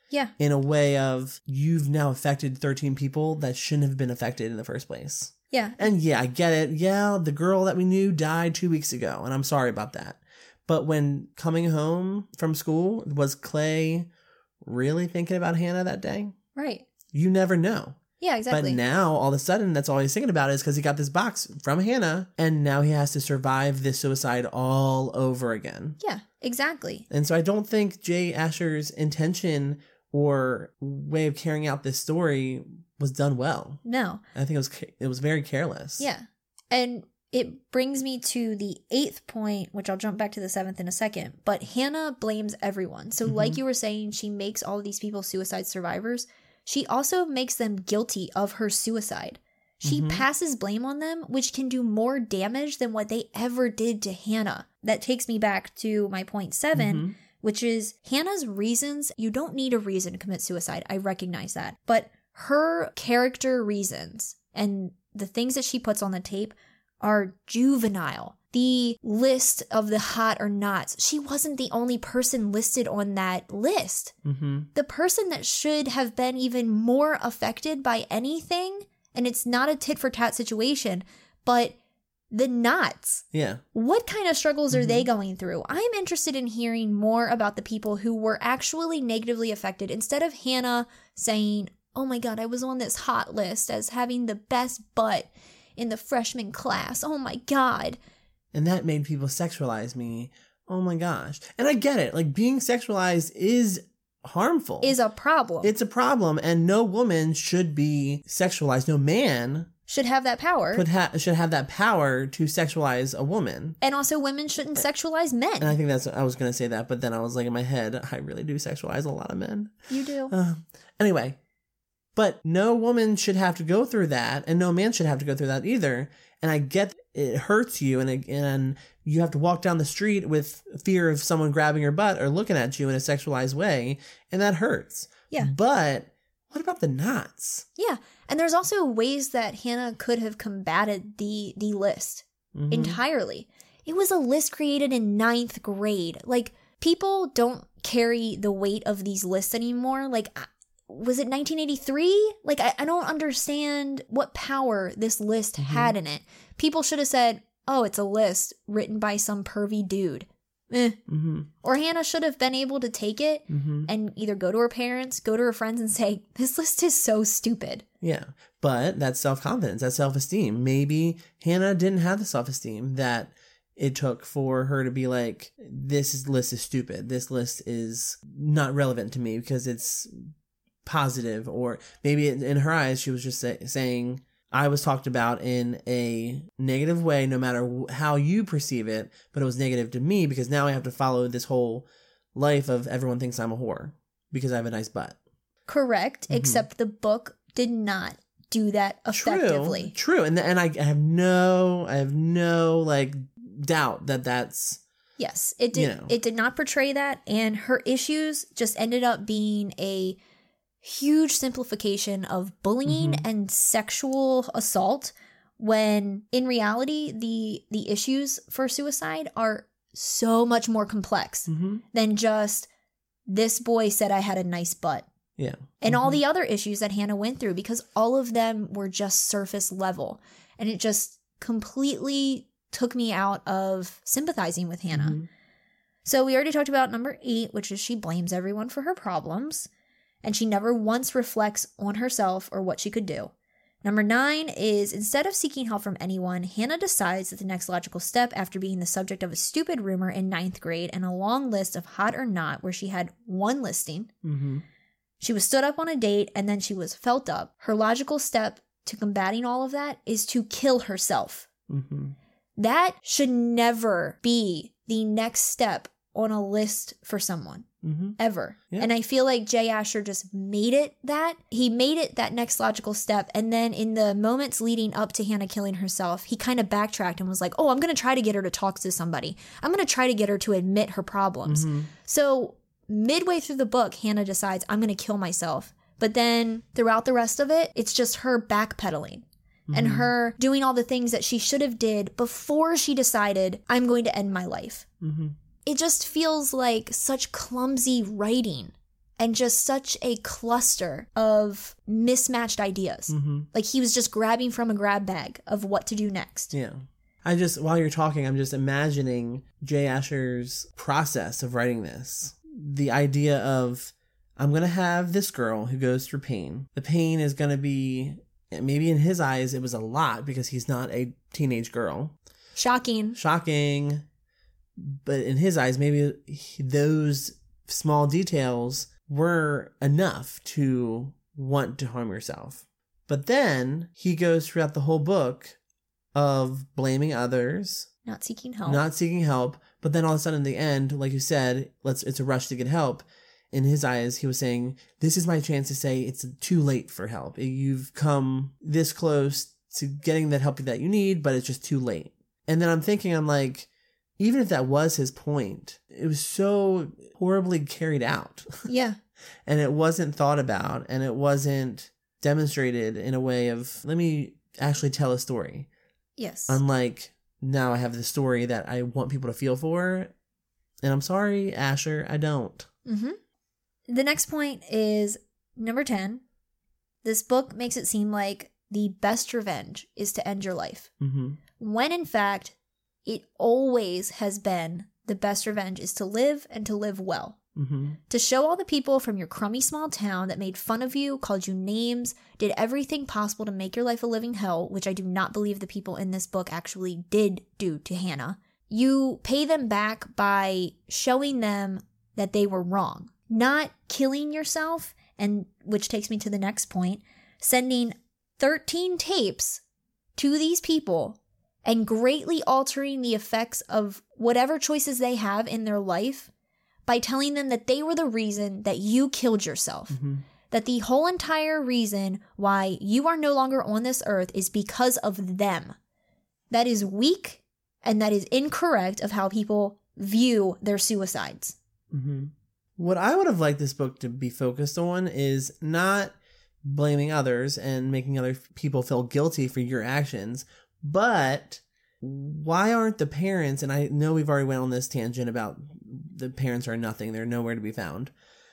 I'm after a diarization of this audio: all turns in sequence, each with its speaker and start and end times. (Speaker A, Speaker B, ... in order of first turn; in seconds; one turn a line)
Speaker A: 0.4-14.1
Speaker B: 5.5-5.8
Speaker A: 14.6-16.4
Speaker B: 16.6-16.9
Speaker A: 17.1-18.0
Speaker B: 18.2-18.8
Speaker A: 18.5-26.0
Speaker B: 26.0-27.1
Speaker A: 27.1-33.8
Speaker B: 33.8-34.2
Speaker A: 34.3-36.1
Speaker B: 36.0-74.1
Speaker A: 43.2-43.6
Speaker A: 49.9-50.2
Speaker A: 56.7-57.1
Speaker A: 74.2-74.7
Speaker B: 74.7-81.8
Speaker B: 82.3-98.0
Speaker A: 83.3-83.6
Speaker A: 84.7-85.1
Speaker A: 98.5-105.0
Speaker B: 104.8-105.7
Speaker A: 105.6-109.7
Speaker B: 109.9-110.9
Speaker A: 110.7-113.8
Speaker B: 113.8-115.8
Speaker A: 115.6-119.7
Speaker B: 119.9-120.3
Speaker A: 120.3-121.4
Speaker A: 122.2-137.7
Speaker B: 137.8-161.0
Speaker A: 142.5-143.0
Speaker A: 155.6-155.9
Speaker A: 161.1-161.5
Speaker B: 161.6-167.8
Speaker A: 163.5-163.9
Speaker A: 168.0-180.3
Speaker A: 180.8-195.2
Speaker B: 195.7-199.9
Speaker A: 196.3-196.6
Speaker A: 199.1-204.8
Speaker B: 205.2-210.2
Speaker A: 205.7-206.2
Speaker B: 210.8-222.7
Speaker A: 212.8-213.3
Speaker A: 221.5-221.8
Speaker B: 223.3-225.1
Speaker A: 225.4-226.2
Speaker B: 225.8-235.2
Speaker A: 234.9-235.3
Speaker B: 236.1-239.7
Speaker B: 240.2-243.3
Speaker B: 243.8-254.1
Speaker A: 254.2-254.6
Speaker B: 255.2-261.5
Speaker A: 261.7-262.2
Speaker B: 262.6-267.7
Speaker A: 267.8-268.2
Speaker B: 268.2-294.9
Speaker A: 281.5-281.9
Speaker A: 289.7-290.1
Speaker A: 295.0-295.4
Speaker B: 295.7-306.5
Speaker A: 303.1-303.5
Speaker A: 306.5-322.1
Speaker B: 322.6-323.2
Speaker A: 323.2-324.1
Speaker A: 324.8-335.6
Speaker A: 336.1-337.9
Speaker B: 338.1-338.8
Speaker A: 338.7-353.7
Speaker A: 354.2-358.6
Speaker B: 358.7-359.0
Speaker A: 359.5-365.7
Speaker B: 366.2-366.6
Speaker A: 366.5-370.1
Speaker A: 370.8-372.7
Speaker B: 372.9-373.2
Speaker B: 373.9-376.2
Speaker B: 377.0-380.9
Speaker A: 381.0-381.4
Speaker B: 381.6-382.5
Speaker B: 383.1-387.4
Speaker A: 387.6-388.0
Speaker B: 388.1-409.6
Speaker B: 410.2-416.3
Speaker B: 416.9-420.0
Speaker A: 419.9-420.2
Speaker B: 420.5-425.8
Speaker B: 426.5-431.6
Speaker A: 431.9-448.1